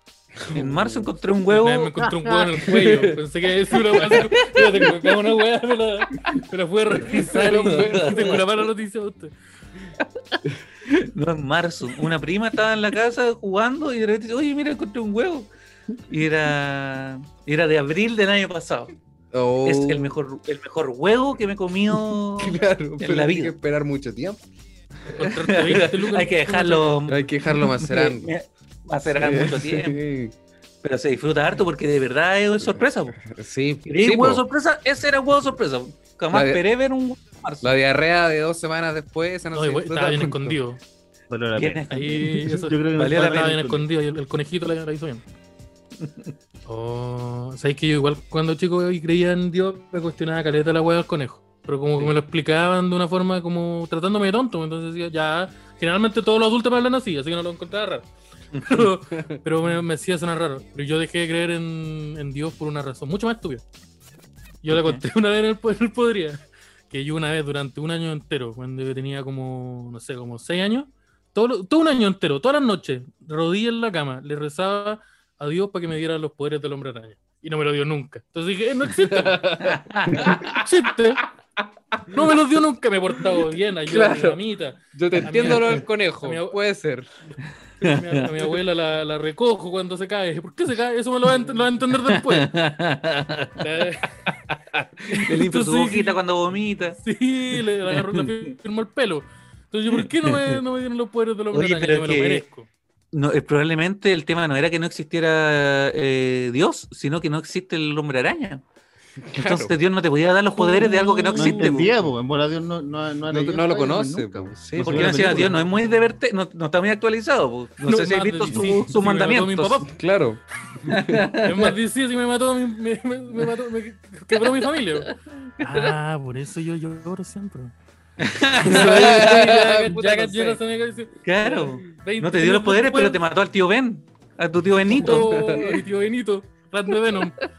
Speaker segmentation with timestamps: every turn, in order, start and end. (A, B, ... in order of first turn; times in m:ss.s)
0:00.4-0:01.1 A
0:00.5-0:02.1 B
0:01.4-0:09.3 C
0:02.6-0:03.2 A
0:03.9-0:05.0 B
0:07.1-0:08.4 A
0:07.1-0:08.4 B
0:10.0-0:15.5 B
0:16.1-0:18.9 B
0:19.3-0:20.2 A
0:19.6-0:23.5 B
0:21.9-0:24.4 A
0:25.1-0:27.0 C
0:25.2-0:30.0 B
0:27.1-0:28.3 A
0:29.1-0:30.3 A
0:30.8-0:33.2 B
0:32.6-0:34.4 A
0:33.8-0:37.7 B
0:36.3-0:36.6 A
0:37.6-0:40.6 A
0:39.5-0:40.8 C
0:41.3-0:43.9 D
0:41.6-0:42.2 B
0:41.9-0:45.2 C
0:42.9-0:43.6 B
0:46.0-0:46.3 B
0:46.6-0:58.1 C
0:58.5-0:58.8 B
0:58.6-1:03.6 C
0:59.1-0:59.4 A
1:04.6-1:21.2 C
1:04.7-1:05.0 B
1:19.0-1:20.5 A
1:19.6-1:20.6 B
1:22.1-1:26.6 C
1:23.8-1:24.4 A
1:24.9-1:27.1 A
1:25.4-1:25.8 B
1:27.8-1:32.5 C
1:32.0-1:33.9 B
1:33.6-1:36.2 C
1:35.1-1:37.0 B
1:37.0-1:42.7 C
1:38.0-1:38.3 B
1:39.9-1:40.6 B
1:41.5-1:42.4 B
1:43.1-1:48.6 B
1:49.2-1:49.8 A
1:49.3-1:51.9 B
1:50.6-1:51.8 C
1:51.3-1:55.7 D
1:53.3-1:55.5 A
1:54.8-1:59.8 B
1:57.9-1:59.9 C
1:59.9-2:01.3 A
2:00.9-2:01.7 B
2:01.4-2:07.7 C
2:08.2-2:09.7 B
2:08.6-2:10.6 A
2:08.6-2:13.2 C
2:11.2-2:15.6 B
2:14.9-2:15.8 A
2:14.9-2:17.4 C